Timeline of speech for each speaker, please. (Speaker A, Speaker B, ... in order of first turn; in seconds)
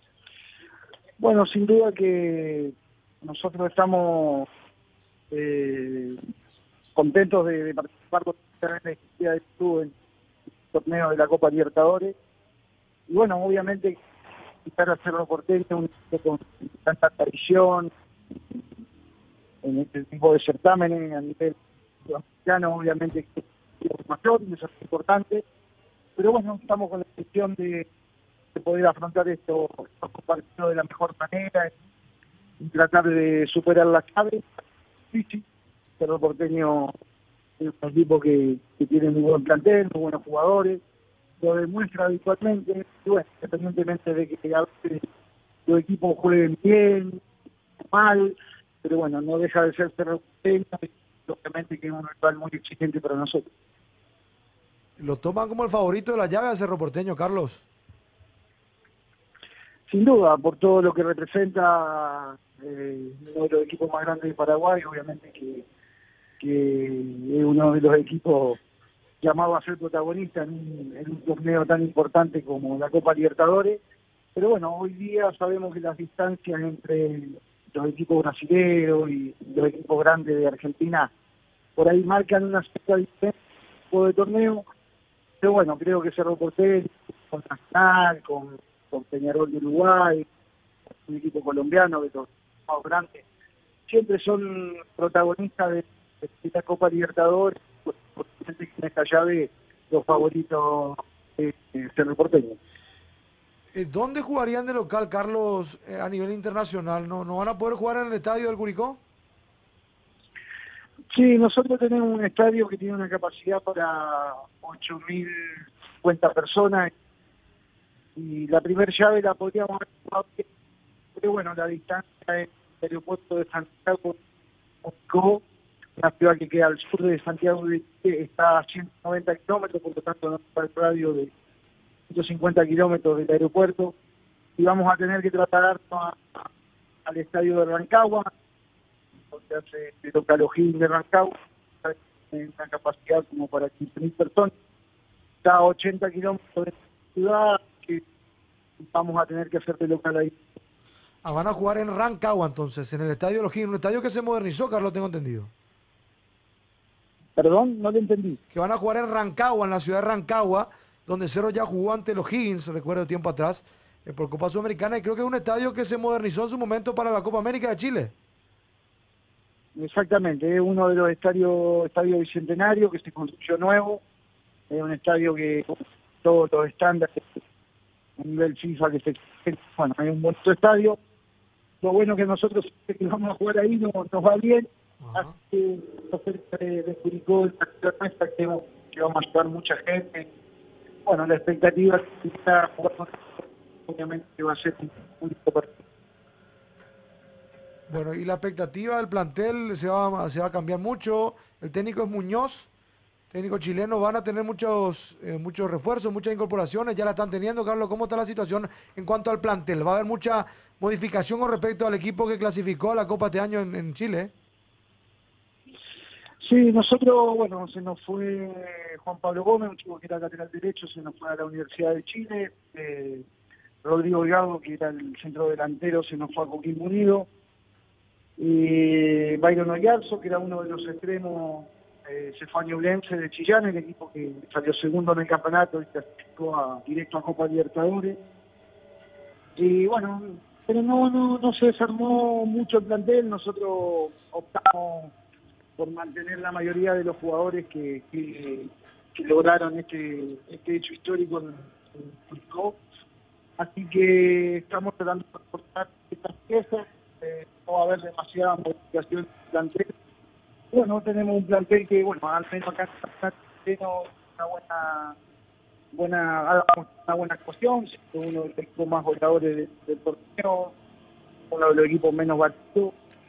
Speaker A: 1.2-4.5, 5.3-6.2, 7.0-9.9, 10.7-12.2, 13.1-14.0, 14.7-17.9, 19.6-25.4, 26.2-27.9, 28.6-31.7, 32.6-34.4, 35.1-35.5, 36.0-36.9, 37.6-40.8, 41.4-45.0, 45.7-47.2, 47.9-53.5, 59.9-65.7, 66.4-68.6, 69.2-73.8, 74.4-81.1, 81.8-83.4, 83.9-84.7, 85.4-90.3, 91.1-93.2, 93.9-102.6, 111.1-116.9, 118.2-120.5, 121.2-124.2, 124.8-125.4, 126.0-131.3, 132.1-133.9, 134.6-136.5, 137.1-138.3, 139.3-144.5, 145.4-148.0, 148.8-150.4, 157.4-158.4, 169.8-174.0, 174.7-177.2, 178.2-181.0, 181.8-190.3, 191.1-193.3, 193.9-195.8, 216.4-223.3, 223.8-227.3, 228.4-238.2, 239.6-245.1, 245.8-252.8, 253.6-259.9, 260.7-265.2, 265.9-270.8, 271.5-272.9
Speaker B: 55.0-57.7, 103.7-109.0, 151.2-155.5, 158.5-168.1, 185.0-185.3, 197.9-202.7, 203.3-214.3